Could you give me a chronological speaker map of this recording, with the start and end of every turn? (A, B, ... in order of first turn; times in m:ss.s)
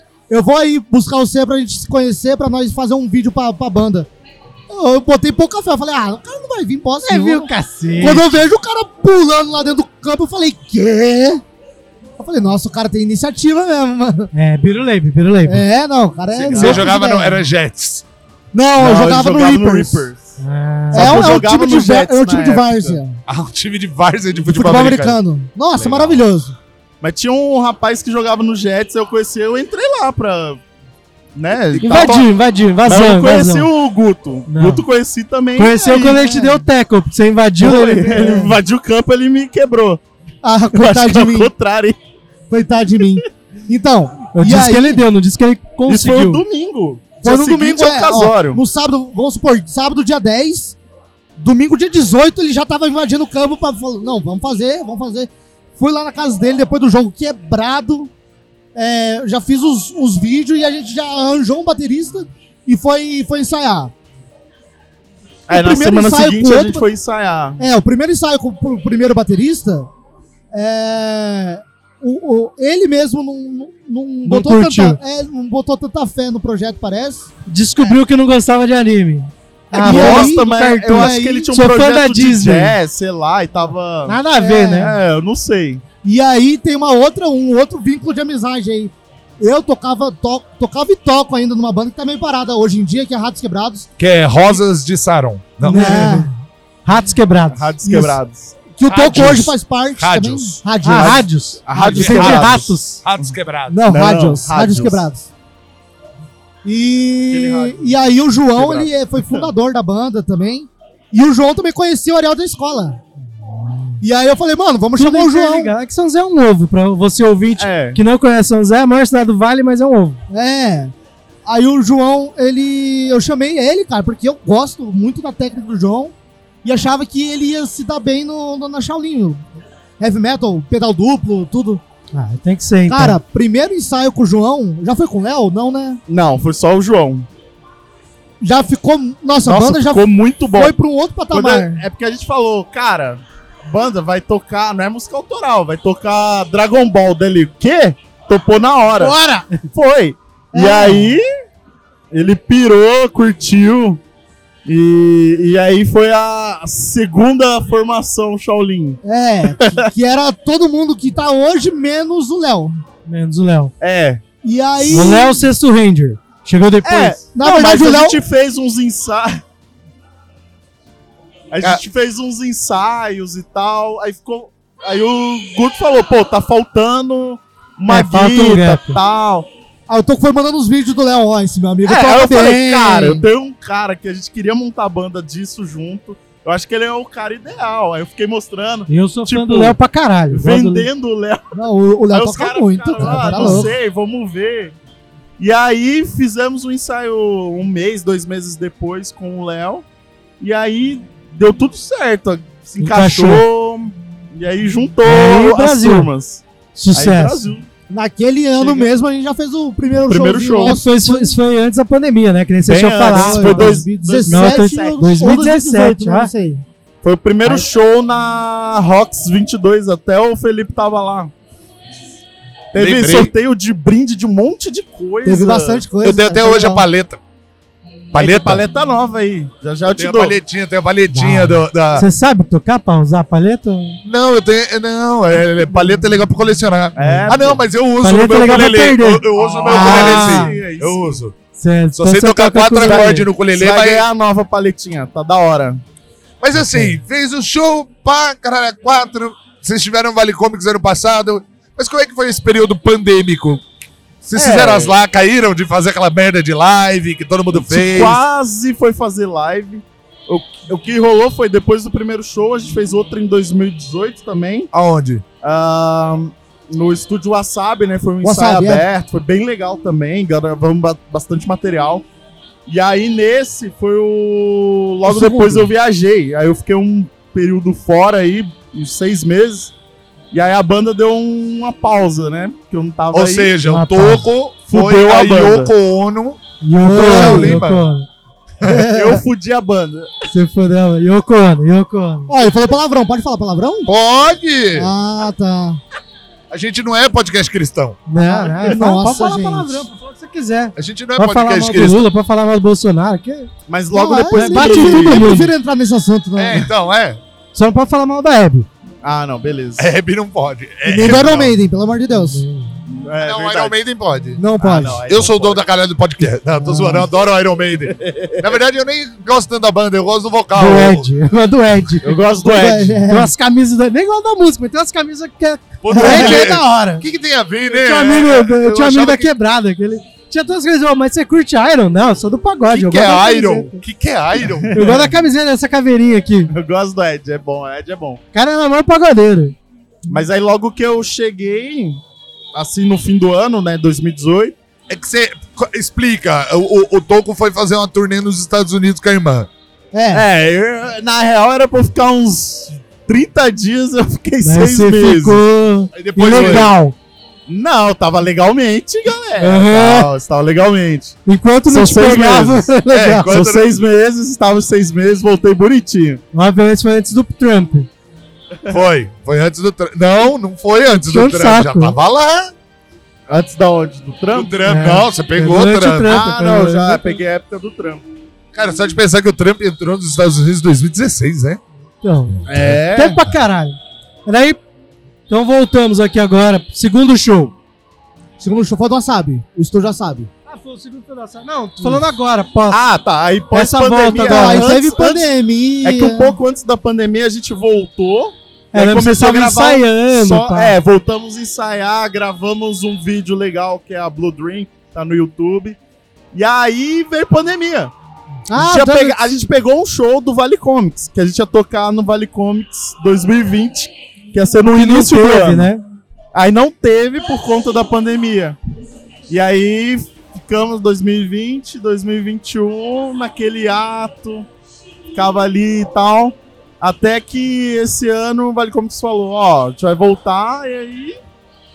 0:00.3-0:04.1 A
0:04.7-0:11.4 A
0:07.0-0:08.3 B
0:12.2-0:14.3 A
0:14.3-0:15.6 B
0:15.5-0:17.4 A
0:16.4-0:16.9 C
0:16.4-0:18.0 D
0:18.5-0:20.1 A
0:18.8-0:20.4 C
0:20.4-0:21.4 B
0:20.9-0:23.0 C
0:20.9-0:23.2 A
0:23.3-0:25.2 D
0:24.4-0:26.6 A
0:25.8-0:26.2 D
0:27.0-0:30.6 C
0:31.4-0:32.3 C
0:31.7-0:32.3 D
0:31.8-0:33.7 B
0:32.8-0:36.2 C
0:34.5-0:34.9 B
0:35.6-0:38.5 B
0:36.0-0:36.6 A
0:37.6-0:40.0 C
0:38.1-0:38.6 A
0:40.4-0:41.5 A
0:40.7-0:42.0 C
0:42.5-0:45.0 A
0:44.3-0:46.4 B
0:45.9-0:48.6 C
0:47.2-0:50.8 A
0:51.4-0:58.1 A
0:58.8-1:03.9 A
1:05.5-1:07.6 C
1:05.5-1:06.8 A
1:07.6-1:09.9 A
1:10.5-1:17.3 A
1:14.2-1:15.0 B
1:17.5-1:22.8 B
1:19.7-1:21.5 A
1:19.8-1:24.2 C
1:24.1-1:25.0 B
1:24.4-1:25.0 A
1:24.8-1:25.8 C
1:26.0-1:33.9 A
1:34.0-1:36.1 D
1:35.6-1:37.7 B
1:35.7-1:36.3 A
1:37.5-1:38.6 C
1:37.9-1:38.2 A
1:38.8-1:41.3 A
1:38.9-1:40.6 D
1:40.8-1:43.0 B
1:41.0-1:43.3 C
1:41.8-1:42.4 A
1:41.9-1:43.8 D
1:43.7-1:45.3 A
1:43.9-1:45.0 C
1:46.6-1:53.0 A
1:47.3-1:48.0 D
1:48.6-1:49.5 C
1:53.5-1:54.0 B
1:54.0-1:55.7 A
1:55.0-2:00.2 B
1:57.6-1:58.0 C
2:00.3-2:00.9 A
2:01.4-2:09.4 A
2:10.0-2:11.8 A
2:12.1-2:13.2 B
2:12.9-2:16.0 A
2:16.1-2:17.3 C
2:18.4-2:21.8 A
2:19.4-2:20.8 C
2:21.3-2:29.2 C
2:29.0-2:29.4 B
2:29.7-2:31.2 C
2:30.5-2:31.2 A
2:32.1-2:34.0 C
2:34.6-2:39.9 C
2:39.0-2:42.8 A
2:43.1-2:43.7 B
2:43.8-2:44.2 C
2:44.4-2:45.5 A
2:44.9-2:47.2 B
2:46.8-2:49.4 C
2:47.3-2:48.2 A
2:51.5-2:59.5 C
2:57.9-2:59.0 B
2:59.9-3:03.3 A
3:01.8-3:09.8 C
3:08.9-3:10.9 B
3:10.3-3:11.6 C
3:11.6-3:13.7 A
3:12.1-3:14.7 C
3:13.0-3:13.7 B
3:15.4-3:19.8 C
3:20.4-3:27.7 C
3:22.8-3:23.5 B
3:25.0-3:26.1 B
3:26.8-3:27.4 B
3:27.9-3:31.3 A
3:28.6-3:28.9 C
3:30.1-3:30.8 C
3:30.6-3:36.3 B
3:32.6-3:35.1 C
3:33.1-3:36.6 A
3:37.0-3:41.3 C
3:42.7-3:45.9 C
3:42.8-3:43.3 D
3:45.2-3:46.8 A
3:46.0-3:47.2 D
3:48.1-3:48.6 D
3:48.1-3:50.4 C
3:49.9-3:52.1 D
3:51.1-3:54.0 B
3:54.0-4:01.3 D
3:57.0-3:57.6 C
3:57.0-3:57.3 B
3:58.0-4:00.6 B
3:59.4-4:01.2 C
4:01.6-4:03.3 B
4:02.0-4:04.0 D
4:02.8-4:05.8 C
4:06.4-4:13.6 D
4:06.6-4:07.0 B
4:14.2-4:18.2 D
4:14.4-4:15.0 C
4:17.5-4:24.7 C
4:24.7-4:25.2 D
4:25.4-4:32.0 C
4:28.2-4:28.9 A
4:32.7-4:39.7 C
4:35.1-4:35.7 A
4:40.3-4:43.5 C
4:43.1-4:47.9 D
4:43.6-4:44.3 B
4:44.7-4:45.7 C
4:46.6-4:48.1 B
4:46.8-4:47.6 A
4:48.6-4:49.2 A
4:48.9-4:50.1 C
4:50.3-4:52.3 B
4:52.3-4:53.9 A
4:53.9-4:54.9 D
4:54.8-4:55.8 A
4:56.5-4:58.0 D
4:58.1-5:03.5 B
4:58.2-4:59.8 A
4:58.6-4:59.3 C
5:00.8-5:02.1 D
5:03.7-5:05.4 C
5:03.9-5:06.7 A
5:04.3-5:05.5 B
5:06.4-5:07.2 D
5:07.6-5:08.7 B
5:09.0-5:09.9 C
5:09.8-5:11.6 D
5:10.8-5:12.4 A
5:12.1-5:12.7 B
5:12.9-5:13.7 C
5:13.2-5:14.4 D
5:14.4-5:15.0 A
5:14.6-5:15.6 C
5:15.1-5:21.1 D
5:16.6-5:17.1 A
5:17.9-5:18.4 C
5:20.6-5:22.2 B
5:22.0-5:23.0 C
5:22.4-5:23.3 A
5:23.1-5:27.0 B
5:25.8-5:29.3 D
5:25.9-5:26.7 A
5:27.7-5:33.8 B
5:32.7-5:34.8 D
5:34.4-5:35.1 C
5:34.7-5:36.5 B
5:36.5-5:38.2 C
5:38.3-5:39.6 B
5:40.1-5:42.0 C
5:42.5-5:44.6 C
5:44.9-5:49.5 D
5:49.9-5:50.3 A
5:50.1-5:55.4 C
5:54.4-5:57.0 B
5:55.9-5:56.7 D
5:56.3-5:56.7 C
5:57.5-6:01.2 C
5:59.4-6:00.1 B
6:01.3-6:03.4 B
6:01.7-6:06.2 C
6:02.9-6:03.8 D
6:06.3-6:07.9 B
6:08.7-6:12.5 D
6:10.9-6:12.0 B
6:13.3-6:14.8 C
6:14.3-6:16.2 D
6:14.6-6:17.2 B
6:16.1-6:18.0 C
6:18.5-6:21.6 D
6:22.0-6:24.6 B
6:22.5-6:23.2 C
6:22.5-6:22.8 D
6:25.3-6:27.5 B
6:28.4-6:30.3 A
6:30.5-6:32.8 B
6:32.7-6:35.3 C
6:33.5-6:34.7 B
6:34.2-6:36.4 A
6:35.8-6:45.8 C
6:38.7-6:40.8 B
6:46.3-6:47.9 C
6:48.5-6:49.2 B
6:48.5-6:55.7 C
6:54.7-6:55.8 B
6:56.3-6:58.6 C
6:59.3-7:04.5 C
7:05.1-7:11.2 C